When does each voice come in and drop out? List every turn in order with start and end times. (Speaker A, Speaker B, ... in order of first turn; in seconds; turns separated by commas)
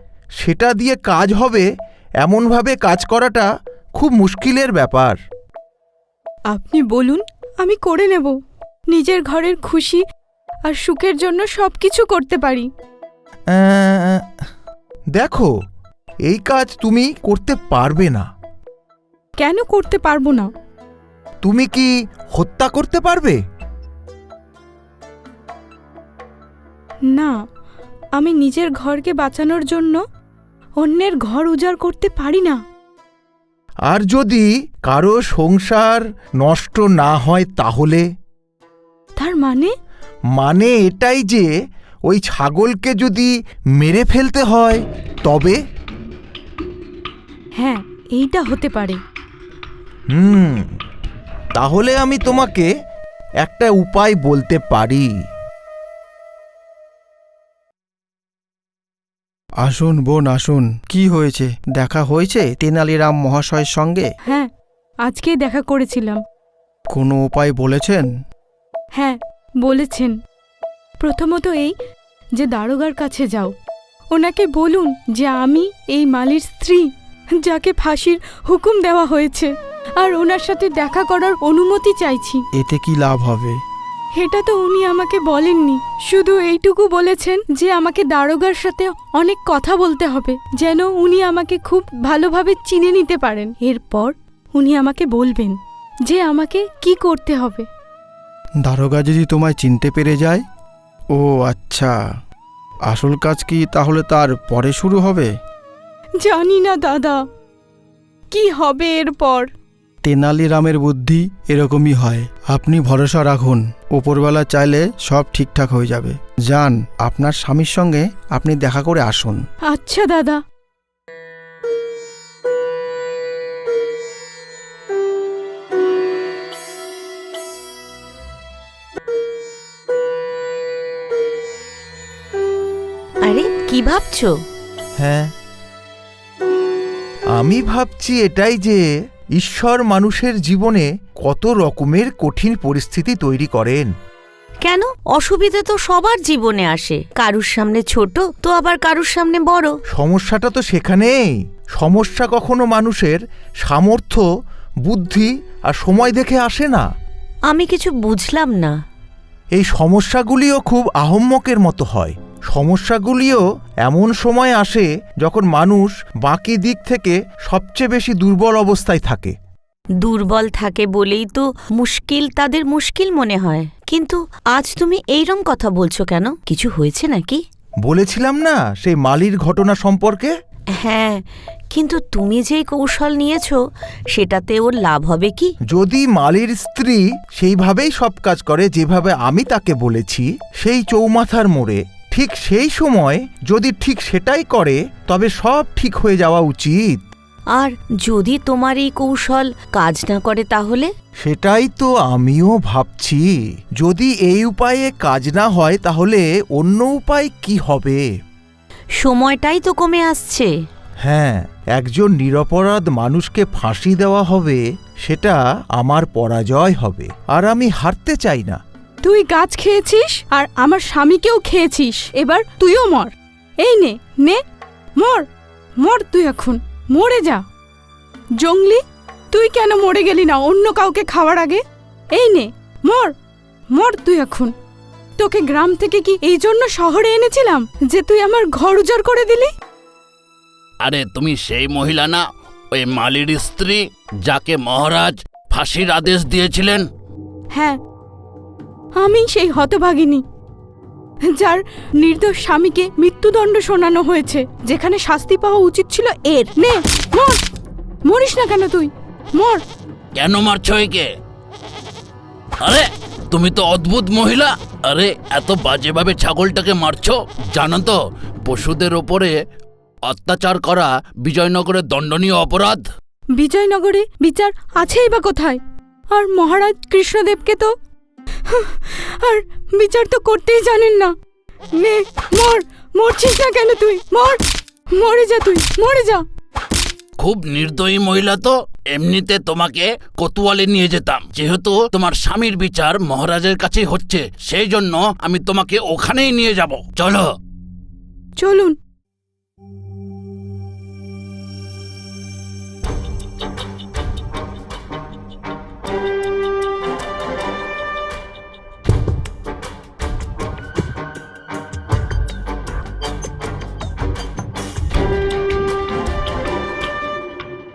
Speaker A: 0.4-1.7, Speaker A: 2.2-5.2, Speaker B: 6.5-8.3, Speaker B: 8.9-10.0, Speaker B: 10.7-12.7, Speaker A: 13.5-14.2, Speaker A: 15.2-15.5, Speaker A: 16.3-18.2, Speaker B: 19.4-20.5, Speaker A: 21.4-23.4, Speaker B: 28.2-30.0, Speaker B: 30.8-32.6, Speaker A: 33.9-38.1, Speaker B: 39.2-39.7, Speaker A: 40.4-41.5, Speaker A: 42.1-45.6, Speaker B: 47.6-49.0, Speaker A: 50.1-50.7, Speaker A: 51.5-52.7, Speaker A: 53.4-55.1, Speaker C: 59.6-64.1, Speaker B: 65.0-66.2, Speaker C: 66.9-68.1, Speaker B: 69.0-70.2, Speaker B: 71.0-71.8, Speaker B: 72.4-73.5, Speaker B: 74.1-76.9, Speaker B: 77.4-82.4, Speaker C: 82.6-83.6, Speaker B: 84.2-97.7, Speaker C: 98.6-100.4, Speaker C: 101.2-102.0, Speaker C: 102.9-105.3, Speaker B: 106.2-107.2, Speaker B: 108.3-109.5, Speaker C: 110.0-119.5, Speaker B: 119.7-120.4, Speaker D: 133.2-134.4, Speaker A: 135.0-135.3, Speaker A: 137.3-138.8, Speaker A: 139.4-143.9, Speaker D: 144.6-149.8, Speaker A: 149.9-151.1, Speaker A: 151.8-154.2, Speaker A: 154.8-156.8, Speaker D: 157.5-158.7, Speaker A: 159.5-169.3, Speaker D: 170.0-177.4, Speaker A: 177.8-180.3, Speaker D: 180.8-183.6, Speaker D: 184.1-185.5, Speaker A: 185.7-197.0, Speaker D: 197.5-200.9, Speaker A: 201.2-203.2, Speaker A: 203.8-208.0, Speaker D: 209.0-210.5, Speaker A: 211.0-218.6, Speaker B: 219.0-224.4, Speaker B: 225.0-225.3, Speaker B: 225.8-227.4, Speaker B: 228.4-231.6, Speaker B: 232.1-233.1, Speaker B: 233.7-234.5, Speaker B: 235.2-239.5, Speaker E: 240.9-242.2, Speaker E: 242.9-246.8, Speaker B: 247.5-247.8, Speaker B: 249.0-250.2, Speaker B: 251.4-257.4, Speaker B: 258.1-259.6, Speaker E: 260.2-261.0, Speaker E: 262.7-268.0, Speaker E: 268.5-269.3, Speaker E: 270.1-272.8, Speaker B: 273.4-275.6, Speaker B: 276.1-277.7, Speaker B: 278.5-281.1, Speaker B: 281.8-284.4, Speaker B: 284.9-286.2, Speaker E: 287.2-297.2, Speaker B: 298.4-298.8